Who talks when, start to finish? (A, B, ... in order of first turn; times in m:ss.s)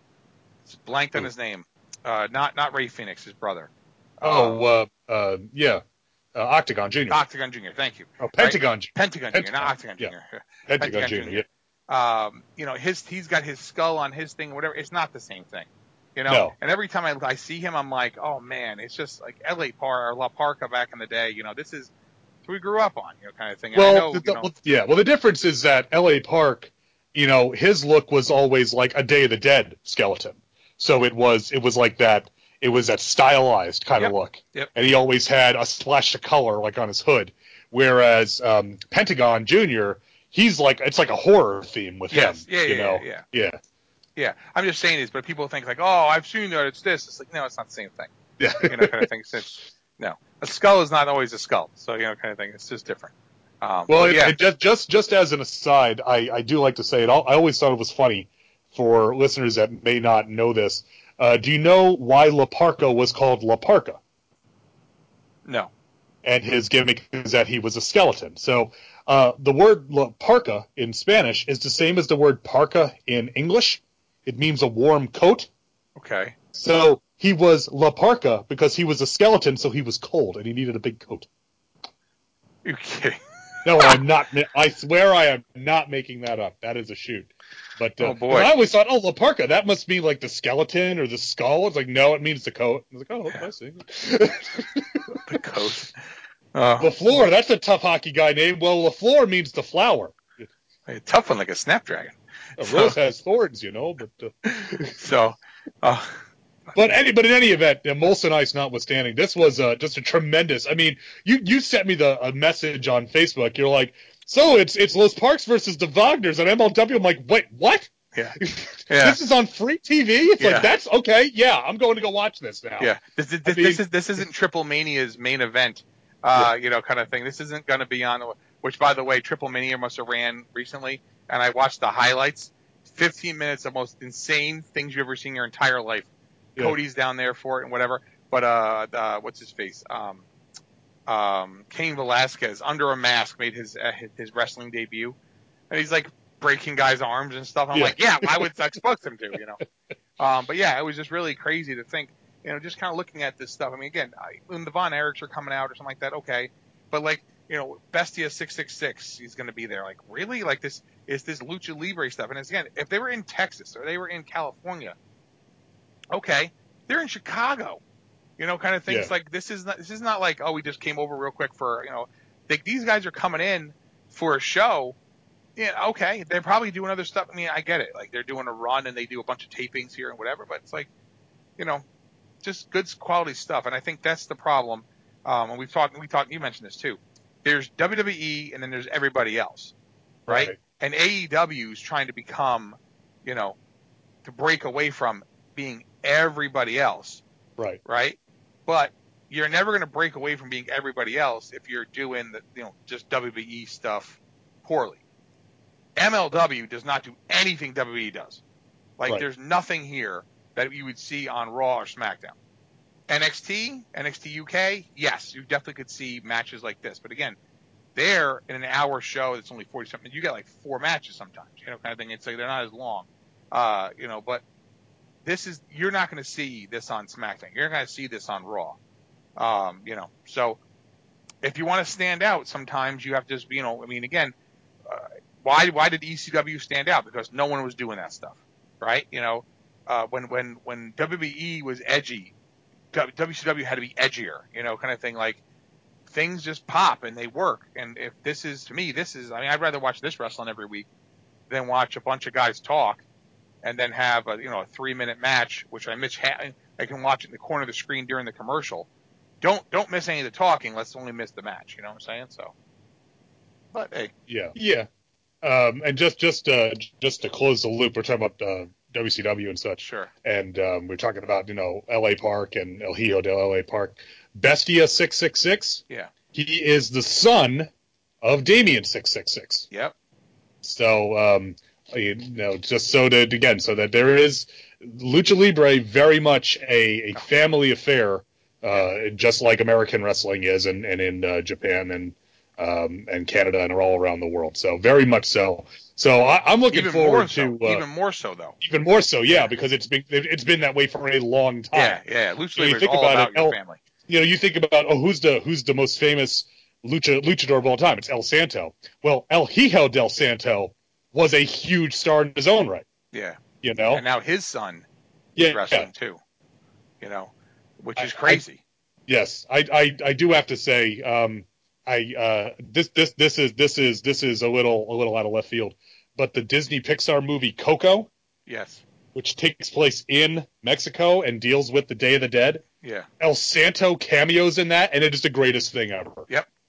0:00.7-0:04.6 A
0:04.2-0:05.8 B
0:06.3-0:07.2 B
0:07.1-0:21.9 A
0:08.2-0:10.1 B
0:10.7-0:11.5 B
0:16.3-0:16.6 B
0:22.5-0:24.5 A
0:23.7-0:43.6 B
0:34.0-0:34.7 A
0:42.1-0:43.2 A
0:44.2-0:48.1 A
0:48.4-0:49.1 B
0:48.6-0:54.4 A
0:53.9-1:04.0 B
1:05.5-1:05.7 A
1:06.2-1:15.5 B
1:16.0-1:16.3 A
1:16.5-1:21.3 B
1:22.6-1:23.2 A
1:23.6-1:35.7 B
1:28.0-1:28.5 A
1:35.1-1:35.9 A
1:36.6-1:37.0 A
1:36.8-1:40.5 B
1:40.9-1:43.0 A
1:42.6-1:44.9 B
1:44.4-1:46.8 A
1:46.8-2:02.9 B
1:58.1-1:59.2 A
2:00.4-2:00.7 A
2:02.8-2:20.2 A
2:03.4-2:03.8 B
2:21.1-2:25.2 A
2:25.7-2:29.6 A
2:27.7-2:28.5 B
2:30.2-2:45.0 A
2:46.1-2:47.8 A
2:48.4-2:55.0 A
2:48.9-2:49.1 B
2:55.6-3:00.9 A
3:01.6-3:01.8 A
3:02.4-3:09.7 A
3:10.3-3:10.6 B
3:10.3-3:13.6 A
3:14.2-3:17.2 A
3:17.8-3:25.0 A
3:26.0-3:28.4 A
3:29.0-3:32.4 A
3:33.1-3:37.4 A
3:38.0-3:44.4 A
3:45.2-3:48.8 A
3:49.4-3:50.6 A
3:51.4-3:54.3 A
3:54.9-4:02.3 A
4:02.9-4:05.4 A
4:06.1-4:10.9 A
4:11.5-4:13.0 A
4:13.6-4:18.9 A
4:19.4-4:22.5 A
4:23.7-4:24.1 A
4:24.3-4:24.9 B
4:25.4-4:37.7 B
4:29.8-4:30.1 A
4:38.2-4:39.7 B
4:40.6-4:57.8 B
4:56.7-4:58.6 A
4:58.6-5:02.0 B
5:01.7-5:03.8 A
5:02.5-5:12.9 B
5:13.1-5:13.4 A
5:13.6-5:14.0 B
5:13.9-5:14.9 A
5:15.4-5:15.9 B
5:15.4-5:16.2 A
5:17.0-5:18.6 A
5:18.0-5:18.4 B
5:19.1-5:28.1 B
5:28.5-5:28.8 A
5:29.1-5:32.6 B
5:32.8-5:33.1 A
5:33.2-5:36.3 B